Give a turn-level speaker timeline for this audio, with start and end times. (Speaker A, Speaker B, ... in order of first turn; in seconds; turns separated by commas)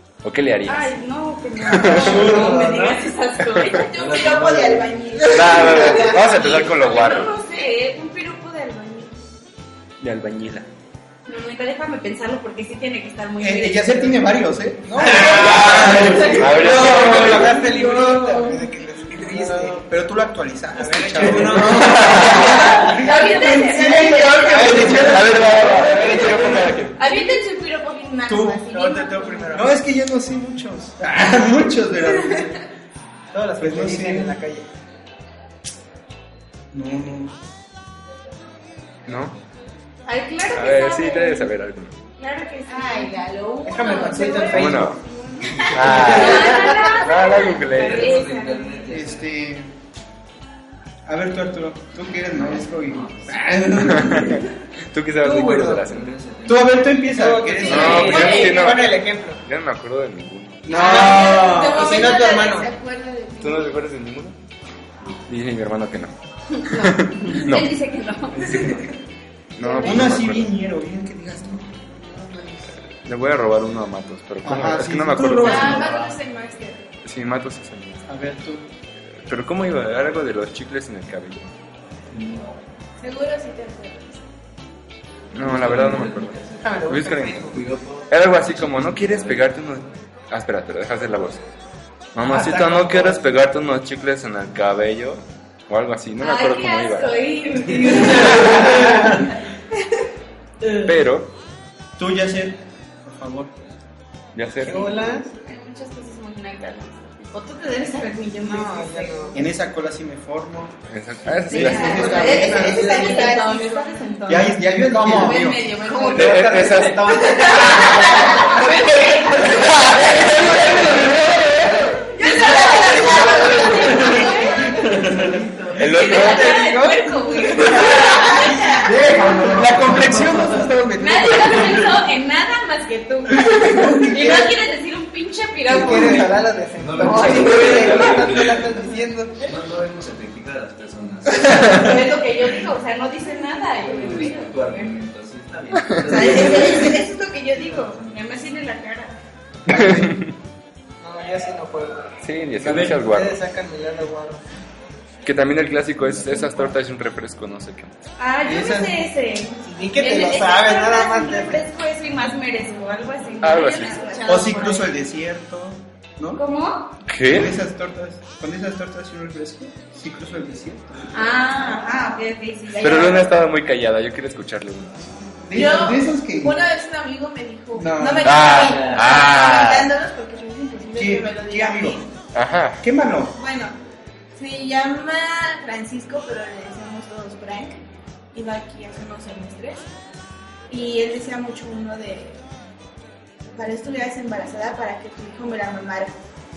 Speaker A: 0.2-1.0, Speaker B: 0.7-4.4, Speaker A: 1.6-2.4, Speaker C: 1.9-3.0, Speaker D: 2.0-2.6, Speaker E: 2.2-2.7, Speaker A: 3.4-3.8, Speaker F: 3.7-6.2, Speaker E: 3.9-5.6, Speaker A: 5.3-7.3, Speaker B: 5.8-9.2, Speaker A: 10.0-10.7, Speaker B: 11.2-14.2, Speaker D: 13.4-26.6, Speaker C: 15.0-19.8, Speaker A: 15.1-17.6, Speaker C: 20.7-26.9, Speaker A: 21.7-22.4, Speaker B: 22.8-25.2, Speaker F: 23.9-24.3, Speaker A: 24.9-27.0, Speaker B: 26.9-29.6, Speaker D: 28.3-32.6, Speaker C: 29.1-29.7, Speaker C: 33.3-34.7, Speaker D: 33.6-34.4, Speaker D: 36.7-37.4, Speaker A: 39.1-39.4, Speaker B: 40.0-41.5, Speaker A: 40.5-42.0, Speaker B: 42.2-43.2, Speaker F: 42.7-46.9, Speaker C: 43.6-45.0, Speaker A: 44.5-45.0, Speaker E: 45.6-46.0, Speaker A: 45.7-48.2, Speaker C: 45.8-46.9, Speaker B: 46.0-48.9, Speaker E: 47.7-49.3, Speaker D: 48.9-49.7, Speaker D: 51.0-54.5, Speaker E: 52.4-53.2, Speaker A: 53.8-56.1, Speaker C: 55.2-55.9, Speaker E: 55.9-56.8, Speaker D: 56.5-58.3, Speaker C: 57.1-59.4, Speaker A: 57.6-60.7, Speaker E: 57.7-58.0, Speaker B: 57.7-58.9, Speaker D: 60.6-61.9, Speaker C: 60.7-62.7, Speaker F: 60.7-63.8, Speaker A: 63.4-64.3, Speaker A: 65.3-66.1, Speaker B: 66.5-68.8, Speaker A: 66.7-67.7, Speaker A: 69.5-70.5, Speaker B: 69.6-70.0, Speaker D: 69.8-72.7, Speaker A: 73.0-75.8, Speaker D: 74.4-75.9, Speaker F: 75.4-76.9, Speaker E: 75.6-76.2, Speaker A: 77.0-78.0, Speaker D: 78.1-78.7, Speaker A: 79.1-81.5, Speaker E: 82.1-82.5, Speaker F: 83.0-84.2, Speaker E: 85.3-86.8, Speaker A: 85.3-87.5, Speaker C: 86.6-87.6, Speaker E: 87.5-89.5, Speaker A: 88.1-91.4, Speaker A: 92.1-97.2, Speaker C: 92.2-93.2, Speaker B: 96.2-100.0, Speaker E: 97.7-98.4, Speaker A: 100.8-101.3, Speaker D: 102.0-103.5, Speaker A: 104.3-105.2, Speaker C: 104.6-105.3, Speaker B: 105.3-109.4, Speaker C: 108.4-109.4, Speaker D: 109.3-113.1, Speaker A: 110.9-112.3, Speaker F: 111.5-114.0, Speaker B: 111.5-121.2, Speaker D: 114.3-115.6, Speaker C: 114.9-119.7, Speaker A: 116.1-117.2, Speaker A: 119.9-120.8, Speaker B: 122.0-125.1, Speaker F: 122.2-124.3, Speaker E: 123.5-124.0, Speaker E: 124.7-125.9, Speaker A: 125.7-126.6, Speaker B: 125.9-129.1, Speaker C: 126.0-128.0, Speaker D: 128.8-131.9, Speaker E: 128.9-130.7, Speaker B: 130.9-136.3, Speaker D: 133.5-134.5, Speaker C: 135.7-139.5, Speaker D: 135.8-136.3, Speaker E: 136.8-138.8, Speaker B: 137.4-137.9, Speaker E: 139.4-142.7, Speaker B: 141.5-144.9, Speaker E: 143.8-147.0, Speaker B: 146.0-149.1, Speaker F: 146.1-147.0, Speaker E: 147.5-148.2, Speaker A: 149.7-150.3, Speaker D: 149.7-150.1, Speaker C: 151.0-152.1, Speaker A: 152.2-153.4, Speaker D: 152.6-153.0, Speaker C: 152.9-154.4, Speaker A: 155.2-158.0, Speaker E: 156.0-156.7, Speaker B: 158.2-164.9, Speaker D: 158.4-159.0, Speaker C: 159.6-161.7, Speaker A: 163.4-164.0, Speaker F: 163.9-164.5, Speaker D: 164.2-166.4, Speaker B: 166.3-166.9, Speaker A: 167.1-167.6, Speaker D: 167.2-171.2, Speaker B: 171.1-173.3, Speaker F: 171.6-172.1, Speaker F: 172.7-173.4, Speaker A: 172.8-175.1, Speaker D: 175.4-176.6, Speaker F: 175.5-182.1, Speaker D: 177.7-178.4, Speaker A: 178.2-179.9, Speaker E: 178.5-179.2, Speaker D: 180.9-182.0, Speaker A: 182.3-182.8, Speaker D: 182.8-183.3, Speaker F: 183.3-183.7, Speaker F: 184.3-187.8, Speaker F: 188.3-189.8, Speaker F: 190.7-192.4, Speaker F: 193.5-196.2